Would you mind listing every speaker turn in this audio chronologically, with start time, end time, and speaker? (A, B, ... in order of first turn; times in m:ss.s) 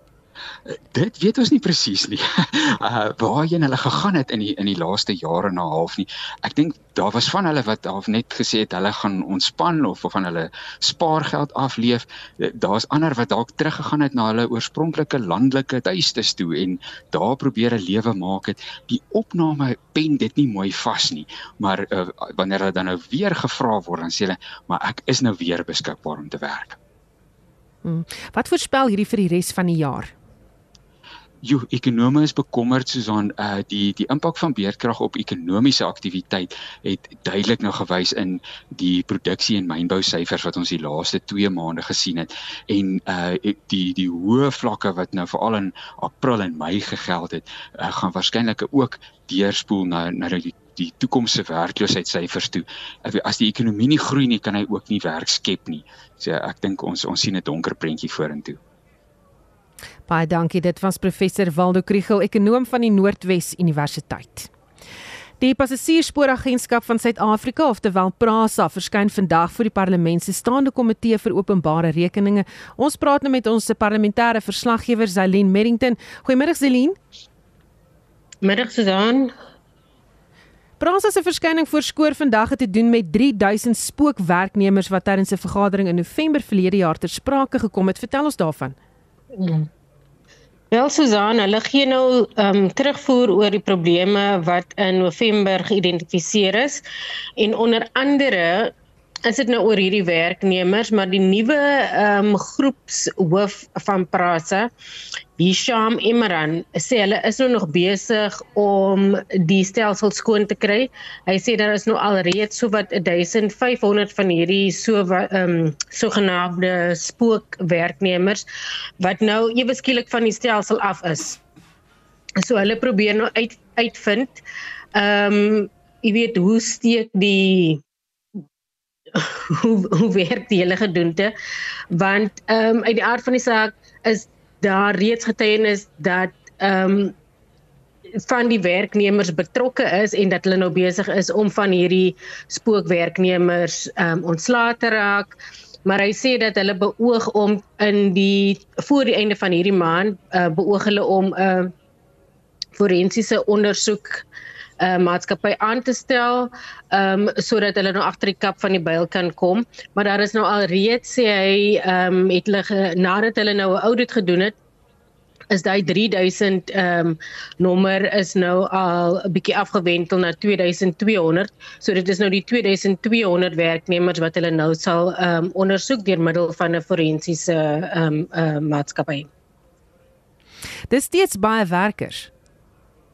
0:00.9-0:26.8 A
0:27.8-0:30.1 B
0:31.4-0:58.6 A
1:00.1-1:04.5 B
1:05.4-1:17.0 B
1:18.4-1:19.3 C
1:20.8-1:28.8 B
1:29.3-1:29.7 C
1:30.7-1:36.8 C
1:37.4-1:38.7 C
1:39.2-1:44.7 C
1:45.4-1:58.4 C
1:59.0-2:01.4 C
2:02.4-2:04.4 C
2:04.9-2:07.8 C
2:09.1-2:11.3 C
2:11.9-2:17.1 C
2:18.2-2:25.3 C
2:25.8-2:31.7 C
2:32.8-2:34.2 C
2:34.8-2:44.6 C
2:45.5-2:59.3 C
3:00.9-3:02.3 B